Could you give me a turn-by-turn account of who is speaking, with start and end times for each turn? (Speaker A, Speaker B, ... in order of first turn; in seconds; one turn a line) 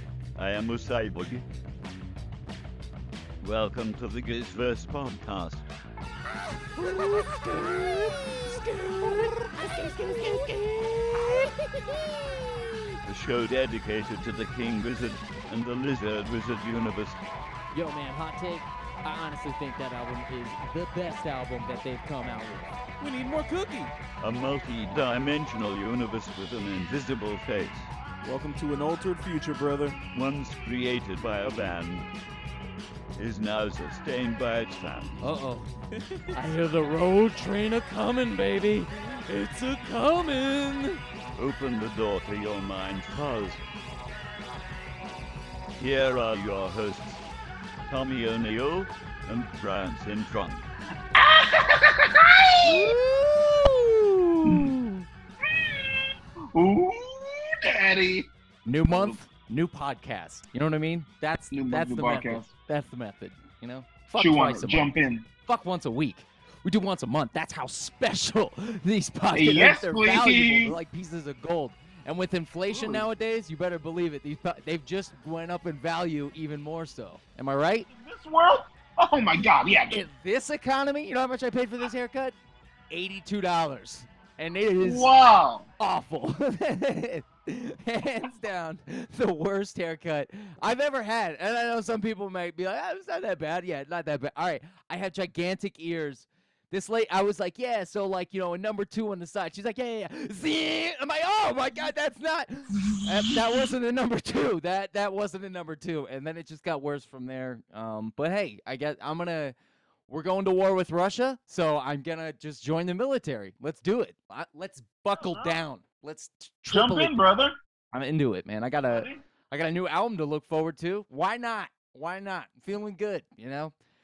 Speaker A: 0.3-1.4
Speaker A: 3.4-5.7
Speaker B: 6.7-12.6
Speaker A: 13.0-17.2
Speaker B: 17.7-22.8
Speaker C: 23.0-23.9
Speaker A: 24.2-27.9
Speaker C: 28.2-30.0
Speaker A: 30.1-32.1
Speaker A: 33.2-35.2
Speaker B: 35.2-35.7
Speaker B: 36.3-41.0
Speaker A: 41.4-43.6
Speaker A: 45.8-47.2
Speaker A: 47.9-50.6
Speaker D: 51.1-52.9
Speaker B: 52.6-55.0
Speaker D: 54.4-54.7
Speaker D: 55.4-58.3
Speaker B: 58.6-64.9
Speaker D: 58.9-59.2
Speaker D: 61.5-62.5
Speaker D: 64.2-65.3
Speaker B: 65.4-77.9
Speaker D: 69.3-70.8
Speaker D: 72.7-73.0
Speaker D: 77.9-80.0
Speaker B: 79.9-82.3
Speaker B: 82.9-85.1
Speaker D: 84.8-85.7
Speaker B: 85.8-109.5
Speaker D: 102.8-103.3
Speaker B: 110.1-117.1
Speaker D: 115.2-115.5
Speaker D: 116.7-117.5
Speaker B: 117.9-123.7
Speaker D: 118.9-119.2